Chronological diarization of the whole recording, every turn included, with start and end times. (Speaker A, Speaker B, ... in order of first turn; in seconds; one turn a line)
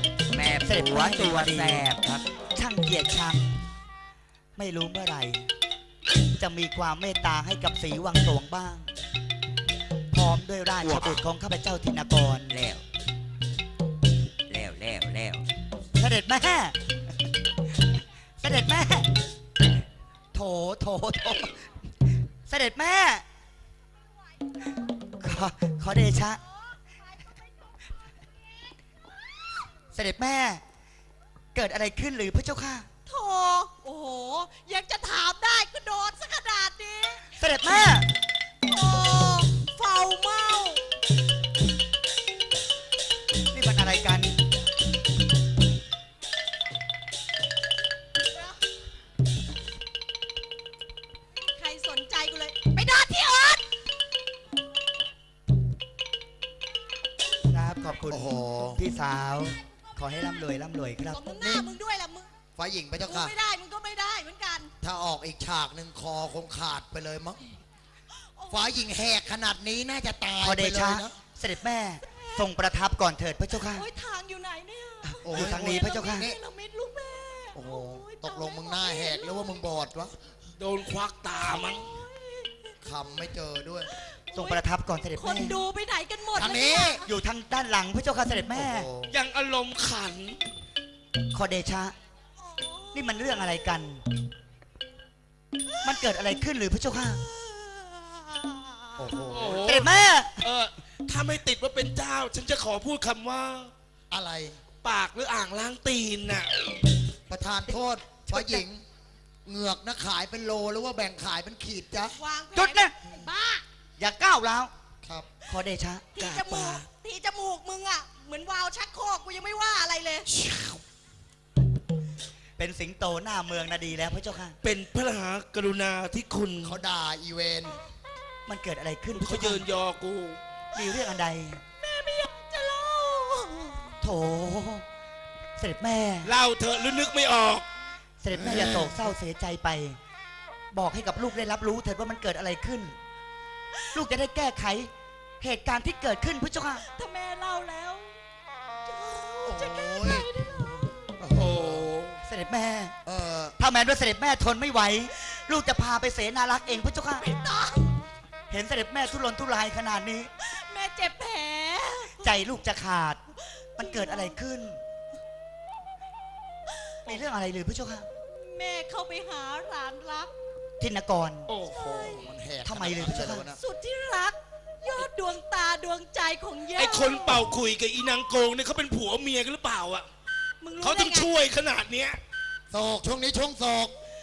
Speaker A: 0.3-2.2
Speaker B: 0.7-1.9
Speaker B: 2.5-3.6
Speaker B: 4.6-5.5
Speaker B: 6.4-8.9
Speaker B: 10.1-12.5
Speaker A: 10.8-11.2
Speaker A: 12.5-12.8
Speaker A: 14.5-15.4
Speaker B: 16.0-16.8
Speaker B: 18.4-19.1
Speaker B: 20.3-21.6
Speaker B: 22.5-23.2
Speaker B: 25.2-26.4
Speaker B: 29.9-30.6
Speaker B: 31.6-32.9
Speaker C: 33.1-37.2
Speaker B: 37.4-38.1
Speaker C: 38.7-40.8
Speaker B: 43.5-44.4
Speaker C: 51.4-53.6
Speaker B: 57.5-61.3
Speaker D: 58.1-58.8
Speaker C: 61.1-62.3
Speaker D: 61.4-61.7
Speaker D: 62.6-63.3
Speaker C: 63.1-64.7
Speaker D: 64.8-67.4
Speaker C: 68.4-68.9
Speaker D: 68.5-71.2
Speaker B: 70.4-73.8
Speaker C: 72.0-72.5
Speaker C: 73.7-79.6
Speaker D: 75.2-76.4
Speaker B: 75.3-76.3
Speaker D: 77.5-80.2
Speaker E: 80.6-81.9
Speaker C: 81.4-82.7
Speaker D: 82.8-83.9
Speaker C: 84.0-84.6
Speaker B: 84.3-85.6
Speaker C: 85.2-87.1
Speaker D: 86.3-87.0
Speaker B: 87.0-88.9
Speaker D: 88.5-89.2
Speaker E: 89.1-90.4
Speaker B: 91.3-91.9
Speaker C: 92.4-93.6
Speaker B: 92.9-94.0
Speaker B: 95.8-97.2
Speaker C: 97.5-99.2
Speaker D: 99.0-99.7
Speaker E: 99.3-103.7
Speaker B: 99.6-100.4
Speaker D: 104.1-104.6
Speaker E: 104.8-106.7
Speaker D: 107.3-108.8
Speaker B: 108.2-108.6
Speaker D: 109.4-112.2
Speaker C: 112.2-113.6
Speaker B: 112.5-112.9
Speaker B: 114.0-114.7
Speaker D: 115.0-115.5
Speaker B: 115.5-116.1
Speaker C: 116.2-120.3
Speaker E: 116.2-116.9
Speaker E: 120.3-120.8
Speaker B: 122.6-124.6
Speaker E: 124.6-126.8
Speaker D: 126.6-127.8
Speaker B: 128.5-129.7
Speaker E: 129.1-130.4
Speaker B: 130.8-131.6
Speaker C: 131.8-133.9
Speaker B: 134.0-134.8
Speaker B: 135.6-136.3
Speaker E: 136.2-137.7
Speaker B: 138.2-140.0
Speaker D: 138.3-139.0
Speaker B: 140.7-142.9
Speaker B: 143.9-146.8
Speaker C: 146.8-148.2
Speaker C: 148.9-151.2
Speaker D: 149.4-151.9
Speaker E: 151.3-152.2
Speaker B: 152.2-152.9
Speaker D: 153.1-153.6
Speaker B: 153.6-157.2
Speaker C: 157.2-158.0
Speaker B: 158.5-160.3
Speaker C: 160.4-162.4
Speaker B: 162.2-163.2
Speaker C: 163.8-164.4
Speaker B: 163.8-164.8
Speaker B: 167.1-168.1
Speaker C: 168.2-170.3
Speaker B: 170.8-171.5
Speaker E: 171.5-172.3
Speaker C: 171.7-172.3
Speaker D: 171.8-173.6
Speaker B: 172.6-173.5
Speaker C: 173.6-177.4
Speaker E: 176.7-180.1
Speaker C: 180.6-181.3
Speaker E: 180.8-182.2
Speaker D: 182.7-183.9